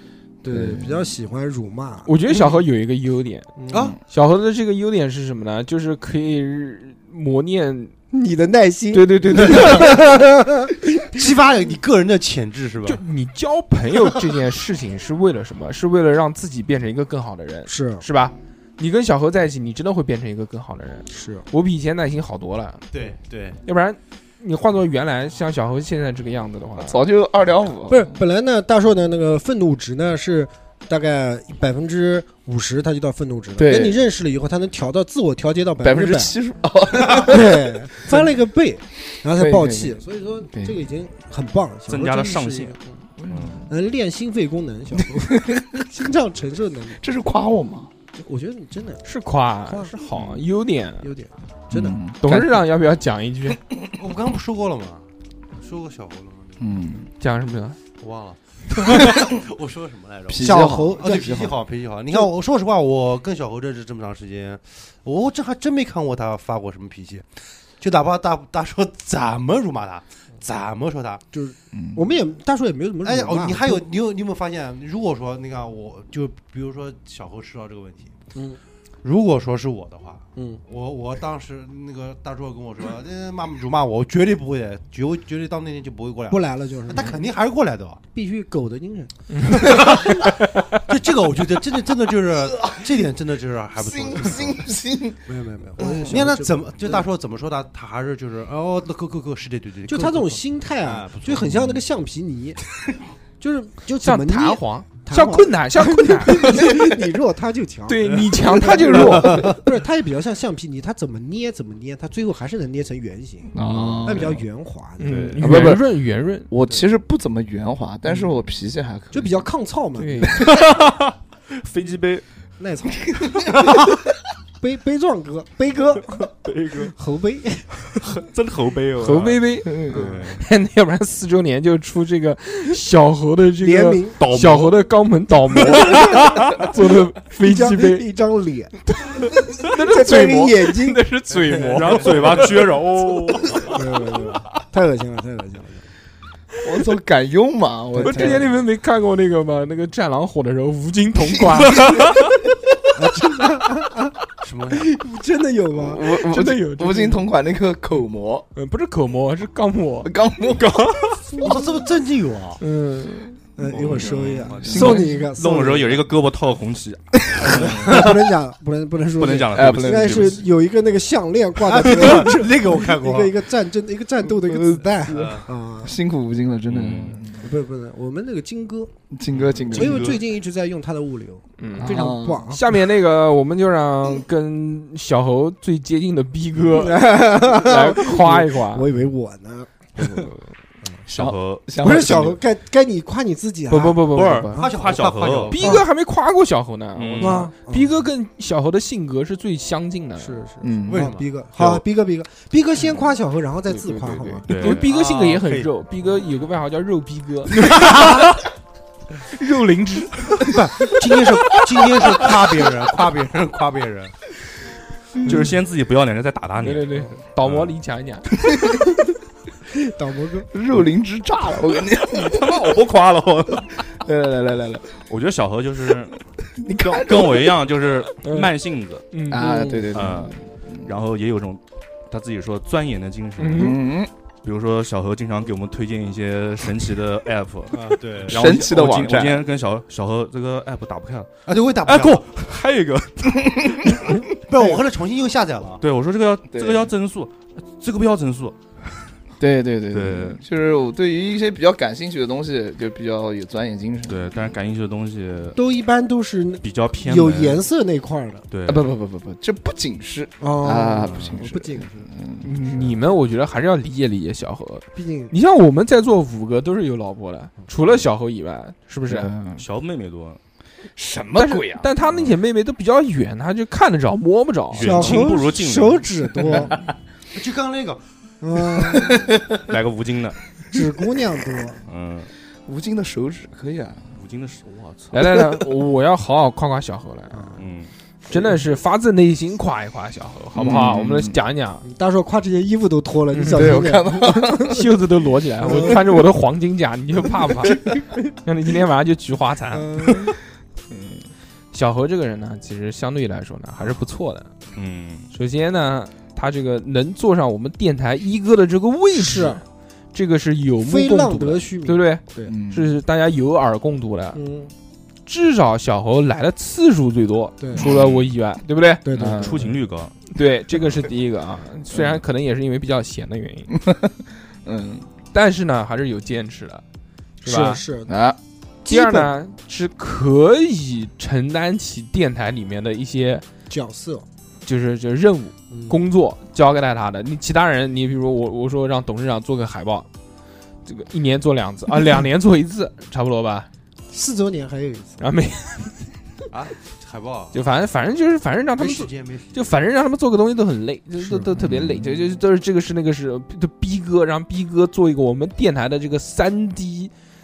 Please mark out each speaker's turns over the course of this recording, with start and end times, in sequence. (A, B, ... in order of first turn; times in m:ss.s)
0:00.4-0:02.1 A
0:00.5-0:01.1 B
0:02.0-0:03.5 C
0:03.6-0:03.9 A
0:03.7-0:04.0 D
0:03.7-0:04.0 B
0:04.1-0:07.9 C
0:08.1-0:11.4 A
0:08.9-0:10.0 C
0:11.1-0:13.0 D
0:12.8-0:22.8 C
0:17.7-0:18.0 A
0:21.1-0:21.4 A
0:22.9-0:23.6 D
0:23.6-0:27.0 C
0:26.8-0:28.1 B
0:27.9-0:36.4 A
0:33.6-0:34.0 B
0:35.8-0:38.3 B
0:37.0-0:43.0 A
0:39.3-0:40.8 B
0:41.9-0:43.6 E
0:43.2-0:43.6 B
0:43.7-0:47.0 A
0:45.1-0:45.8 B
0:47.0-0:47.9 B
0:48.1-0:49.0 A
0:49.0-0:51.1 C
0:49.6-0:49.9 A
0:50.1-0:50.4 B
0:51.0-0:52.0 A
0:51.7-0:52.6 B
0:52.2-0:53.6 C
0:54.0-0:56.8 D
0:56.6-0:57.1 B
0:57.2-0:57.8 C
0:58.0-1:07.3 D
1:00.3-1:01.5 B
1:00.4-1:01.5 A
1:07.8-1:11.2 D
1:11.3-1:13.9 A
1:11.7-1:12.0 B
1:13.0-1:18.1 D
1:18.3-1:18.6 A
1:19.0-1:28.0 D
1:20.4-1:20.6 A
1:26.3-1:27.3 A
1:28.1-1:29.9 A
1:29.3-1:29.8 C
1:29.5-1:34.7 D
1:33.8-1:35.2 B
1:35.3-1:37.0 A
1:35.8-1:36.1 B
1:35.8-1:41.8 D
1:39.9-1:42.6 A
1:43.4-1:53.5 A
1:44.0-1:46.9 C
1:47.9-1:49.6 C
1:53.5-1:54.4 B
1:53.7-1:54.4 E
1:54.0-1:55.3 A
1:55.0-1:56.5 C
1:55.0-1:55.4 E
1:55.4-1:55.8 B
1:56.5-1:59.4 B
1:59.1-2:00.3 A
2:00.0-2:00.4 C
2:00.4-2:02.2 E
2:02.6-2:03.8 A
2:04.6-2:06.3 A
2:06.4-2:06.9 E
2:06.8-2:07.8 A
2:07.9-2:10.4 E
2:09.0-2:18.0 C
2:09.6-2:10.0 B
2:09.9-2:10.4 A
2:13.6-2:14.2 A
2:14.2-2:14.8 E
2:17.4-2:18.8 A
2:19.6-2:22.4 C
2:19.6-2:21.0 A
2:21.7-2:23.8 E
2:22.0-2:22.5 D
2:23.6-2:25.8 A
2:26.6-2:28.5 B
2:27.9-2:28.5 A
2:28.0-2:32.1 C
2:33.0-2:34.1 A
2:34.4-2:34.9 D
2:34.7-2:36.2 A
2:35.7-2:38.5 B
2:36.3-2:37.2 C
2:38.5-2:40.1 C
2:40.0-2:41.3 B
2:41.3-2:41.8 A
2:41.4-2:42.6 D
2:42.6-2:43.3 C
2:43.6-2:46.1 A
2:43.7-2:48.1 E
2:43.8-2:45.0 D
2:44.6-2:45.1 B
2:47.3-2:47.6 B
2:47.4-2:55.9 A
2:49.1-2:50.4 E
2:49.5-2:50.4 B
2:51.6-2:53.4 D
2:54.4-2:57.4 B
2:55.1-2:55.4 D
2:56.7-2:57.2 E
2:57.3-2:58.9 A
2:59.1-3:00.2 B
2:59.6-3:00.2 E
2:59.7-3:02.7 A
3:01.6-3:08.9 C
3:01.8-3:02.5 B
3:06.6-3:10.2 A
3:11.0-3:12.4 E
3:11.1-3:12.3 B
3:11.8-3:14.7 A
3:13.7-3:14.6 C
3:14.1-3:15.8 E
3:14.5-3:15.8 D
3:15.5-3:20.4 C
3:15.6-3:15.8 A
3:16.9-3:17.4 E
3:17.2-3:17.9 A
3:20.2-3:24.5 A
3:20.6-3:21.1 B
3:20.9-3:21.2 D
3:23.7-3:28.4 C
3:24.5-3:24.9 E
3:24.6-3:25.7 D
3:29.3-3:30.4 C
3:30.5-3:34.1 D
3:35.2-3:37.7 E
3:36.6-3:38.3 C
3:38.5-3:38.8 B
3:39.7-3:40.5 A
3:40.5-3:42.8 B
3:42.1-3:43.6 E
3:43.7-3:45.0 B
3:45.1-3:46.1 E
3:46.6-3:47.6 B
3:46.8-3:49.0 E
3:48.2-3:48.5 C
3:49.1-3:49.4 C
3:49.3-3:50.9 B
3:49.4-3:50.0 A
3:49.9-3:53.8 E
3:53.4-3:53.8 C
3:53.6-3:54.1 B
3:54.4-4:01.3 E
3:57.7-3:58.5 D
3:58.3-3:59.5 B
4:01.4-4:02.4 D
4:01.8-4:04.1 E
4:03.5-4:03.8 B
4:04.4-4:05.8 D
4:05.8-4:08.6 E
4:06.5-4:06.9 B
4:09.4-4:14.3 B
4:09.9-4:10.4 E
4:14.1-4:15.6 E
4:15.6-4:18.4 A
4:16.6-4:17.6 E
4:18.5-4:18.9 E
4:18.6-4:23.0 B
4:20.4-4:22.1 A
4:22.4-4:29.3 C
4:24.9-4:25.3 A
4:29.1-4:29.6 B
4:29.5-4:30.4 E
4:31.0-4:31.9 B
4:31.4-4:35.2 C
4:32.0-4:32.4 E
4:34.7-4:36.8 E
4:34.8-4:36.7 A
4:37.3-4:38.0 D
4:38.4-4:39.2 A
4:38.9-4:39.2 D
4:39.7-4:40.4 E
4:40.7-4:41.8 A
4:41.8-4:42.3 E
4:42.7-4:44.1 B
4:44.1-4:45.1 E
4:45.1-4:47.6 C
4:45.2-4:45.5 B
4:47.3-4:47.6 A
4:47.6-4:47.9 E
4:48.3-4:51.8 C
4:50.5-4:51.4 B
4:51.8-4:55.0 A
4:53.3-4:53.9 C
4:53.5-4:54.8 B
4:54.5-4:57.9 C
4:55.6-4:56.2 A
4:57.6-4:58.0 A
4:58.4-5:00.2 C
4:59.7-5:00.3 A
5:00.9-5:01.2 B
5:01.7-5:04.5 C
5:04.8-5:05.3 E
5:05.3-5:09.6 C
5:09.1-5:09.6 A
5:10.1-5:14.4 C
5:10.8-5:12.5 A
5:12.4-5:12.9 B
5:14.3-5:14.7 A
5:15.2-5:19.0 C
5:17.6-5:17.8 A
5:17.8-5:18.3 E
5:19.0-5:19.8 A
5:19.1-5:19.7 B
5:19.3-5:20.1 E
5:20.3-5:23.7 C
5:23.8-5:24.1 B
5:24.6-5:25.0 B
5:25.3-5:26.8 C
5:27.4-5:28.1 A
5:27.4-5:27.8 C
5:28.1-5:28.4 B
5:28.8-5:29.3 A
5:28.8-5:33.4 C
5:33.7-5:34.2 A
5:34.6-5:40.1 C
5:35.7-5:36.0 A
5:40.8-5:43.7 C
5:44.1-5:45.2 A
5:45.2-5:46.0 C
5:46.5-5:47.6 D
5:47.5-5:57.1 C
5:48.8-5:49.8 D
5:51.6-5:52.0 B